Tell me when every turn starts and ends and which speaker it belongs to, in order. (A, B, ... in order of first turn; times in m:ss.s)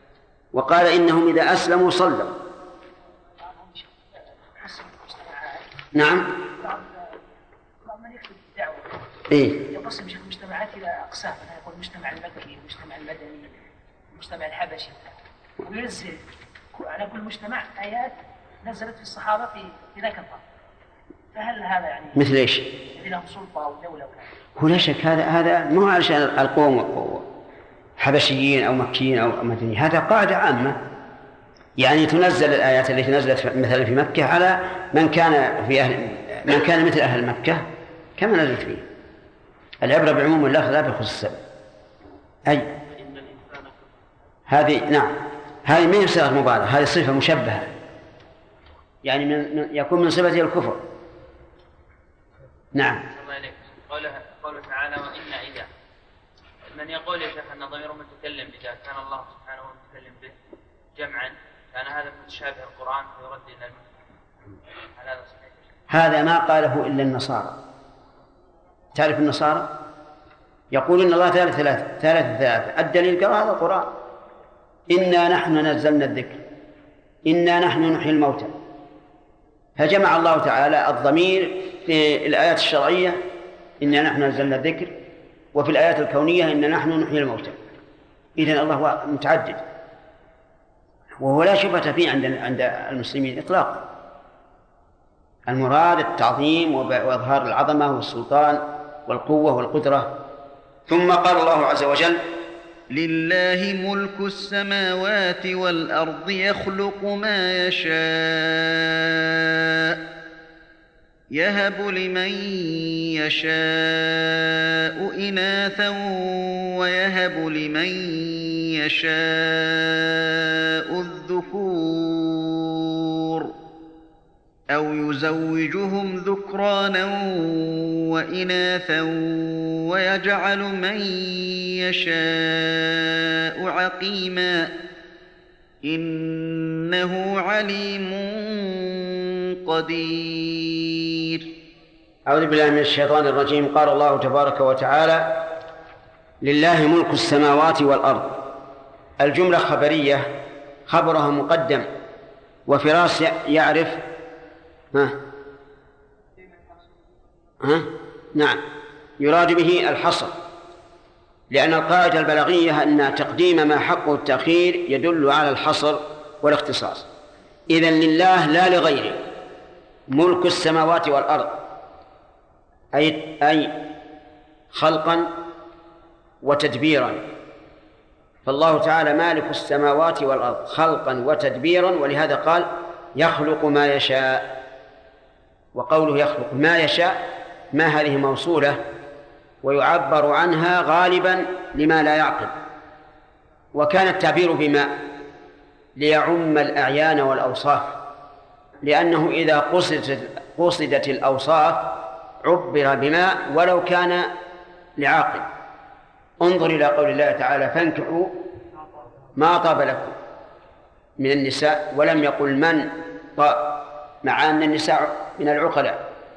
0:00.5-0:02.4 A
0:04.6-0:05.7 B
0:05.9-0:06.3 A
0:06.5-0:06.9 B
0:07.8-0:13.6 B
0:09.3-0:09.6 A
0:14.1-0:16.2 B
0:16.7-0:20.4 B
0:21.3-0:22.2 B
0:22.2-0:22.7 A
0:22.8-0:24.2 B
0:24.6-0:27.2 A
0:28.0-0:30.8 A
0:31.8-0:38.8 A
0:39.8-0:41.4 A
0:42.5-0:42.8 A
0:43.0-0:43.7 C
0:44.5-0:47.7 A
0:49.0-0:50.8 A
0:52.7-0:53.0 A
0:53.1-0:55.7 C
0:56.7-1:00.4 C
1:00.9-1:03.8 C
1:05.0-1:05.6 C
1:05.9-1:07.6 A
1:08.9-1:09.7 A
1:10.7-1:13.9 A
1:14.9-1:16.4 A
1:17.2-1:18.5 A
1:19.8-1:23.2 A
1:23.8-1:24.9 A
1:25.5-1:27.6 A
1:28.4-1:29.6 A
1:31.2-1:33.8 A
1:35.5-1:40.2 A
1:40.9-1:42.2 A
1:42.9-1:50.0 D
1:51.4-2:03.5 D
2:04.7-2:14.7 D
2:15.8-2:21.4 D
2:22.3-2:25.5 A
2:26.4-2:28.4 A
2:29.2-2:30.3 A
2:30.9-2:31.9 A
2:32.7-2:34.0 A
2:37.6-2:38.6 A
2:39.2-2:40.3 A
2:41.5-2:47.1 A
2:47.7-2:49.2 A
2:50.1-2:51.6 A
2:52.9-2:53.8 A
2:54.7-2:55.3 A
2:56.4-2:57.3 A
2:58.4-3:04.5 A
3:05.7-3:07.2 A
3:07.7-3:08.8 A
3:09.6-3:12.5 A
3:13.7-3:14.9 A
3:16.0-3:18.0 A
3:18.8-3:24.3 A
3:25.0-3:25.5 A
3:26.4-3:28.4 A
3:29.4-3:30.1 A
3:31.2-3:36.0 A